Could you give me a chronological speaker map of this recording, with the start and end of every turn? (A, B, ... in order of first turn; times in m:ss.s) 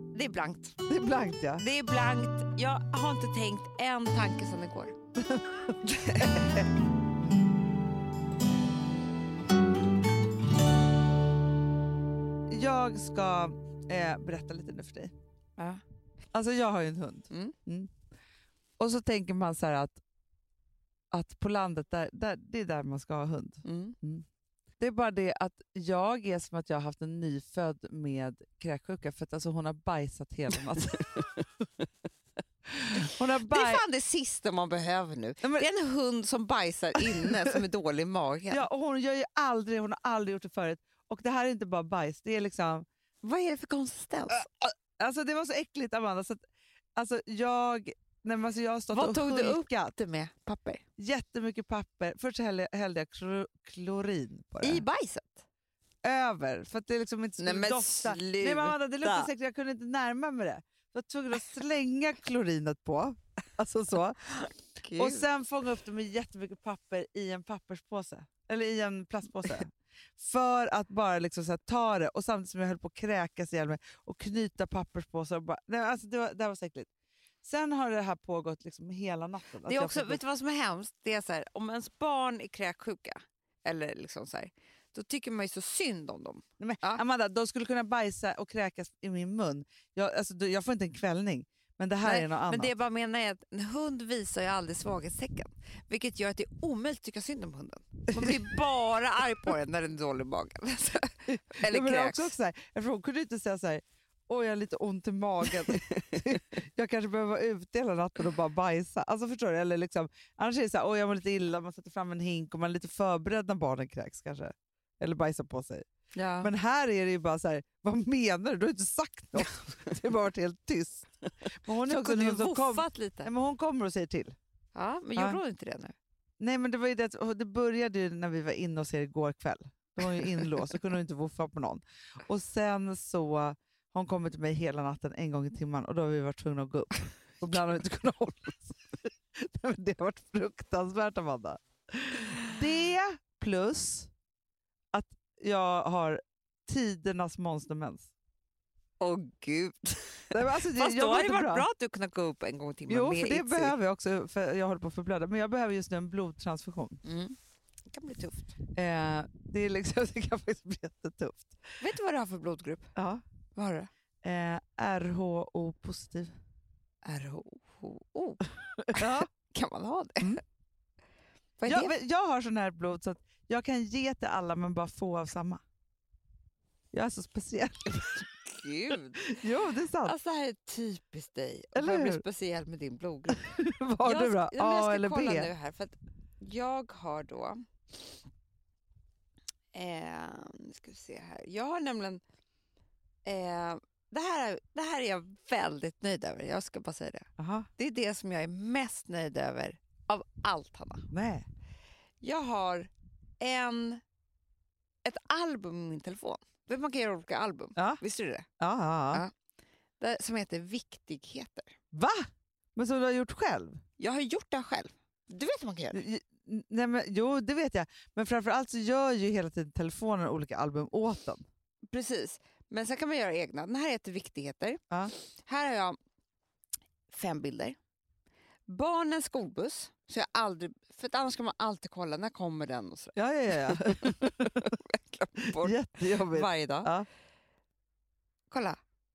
0:00.1-0:00.8 A
0:00.9-0:01.6 B
0:01.6-0:05.0 A
0:05.2-0:06.7 B
0:05.8-0:06.5 A
0:12.5-0:15.1 B
0:15.6-0:15.8 A
0:16.3-0:17.9 B
0:18.8-0:20.0 B
0:21.1-0:24.2 B
0:23.6-0:24.0 A
0:24.8-0:31.0 B
0:32.7-0:33.8 B
0:33.5-0:38.7 A
0:38.5-0:42.9 B
0:43.2-0:44.5 A
0:44.5-0:46.4 B
0:47.0-0:49.9 B
0:48.9-0:50.8 A
0:51.0-0:54.8 B
0:54.6-0:55.4 A
0:56.0-1:04.4 B
0:57.4-0:59.3 A
1:04.8-1:05.2 A
1:05.0-1:16.9 B
1:17.4-1:20.2 B
1:19.6-1:27.0 A
1:26.6-1:32.7 B
1:32.0-1:42.3 A
1:38.1-1:38.4 B
1:41.3-1:55.9 B
1:56.1-1:56.5 A
1:56.4-2:04.4 B
2:01.8-2:03.3 A
2:04.7-2:06.0 A
2:06.4-2:24.1 B
2:24.9-2:28.1 B
2:29.0-2:33.8 A
2:30.3-2:31.7 B
2:32.9-2:37.0 B
2:37.0-2:37.4 A
2:37.9-2:38.6 A
2:38.8-2:41.6 B
2:41.8-2:42.9 A
2:43.0-2:43.2 B
2:43.6-2:43.9 A
2:44.2-2:46.3 B
2:47.0-2:48.4 A
2:48.9-2:49.3 B
2:49.0-2:50.4 A
2:51.6-2:51.9 A
2:51.7-2:55.6 B
2:56.9-2:58.2 B
2:58.4-2:59.3 A
2:59.2-3:00.2 B
3:00.0-3:08.1 A
3:01.8-3:02.2 B
3:03.3-3:05.5 B
3:09.7-3:12.2 A
3:13.2-3:21.1 A
3:17.4-3:17.7 B
3:21.1-3:21.5 B
3:22.2-3:24.0 A
3:25.0-3:28.5 A
3:27.8-3:28.0 B
3:28.6-3:29.2 B
3:30.0-3:31.7 A
3:31.9-3:33.8 B
3:34.0-3:36.0 A
3:35.9-3:41.4 B
3:41.9-3:46.0 A
3:47.1-3:47.8 A
3:48.7-3:53.1 A
3:53.1-3:54.7 B
3:53.7-3:56.9 A
3:55.6-3:57.1 B
3:58.5-3:58.8 A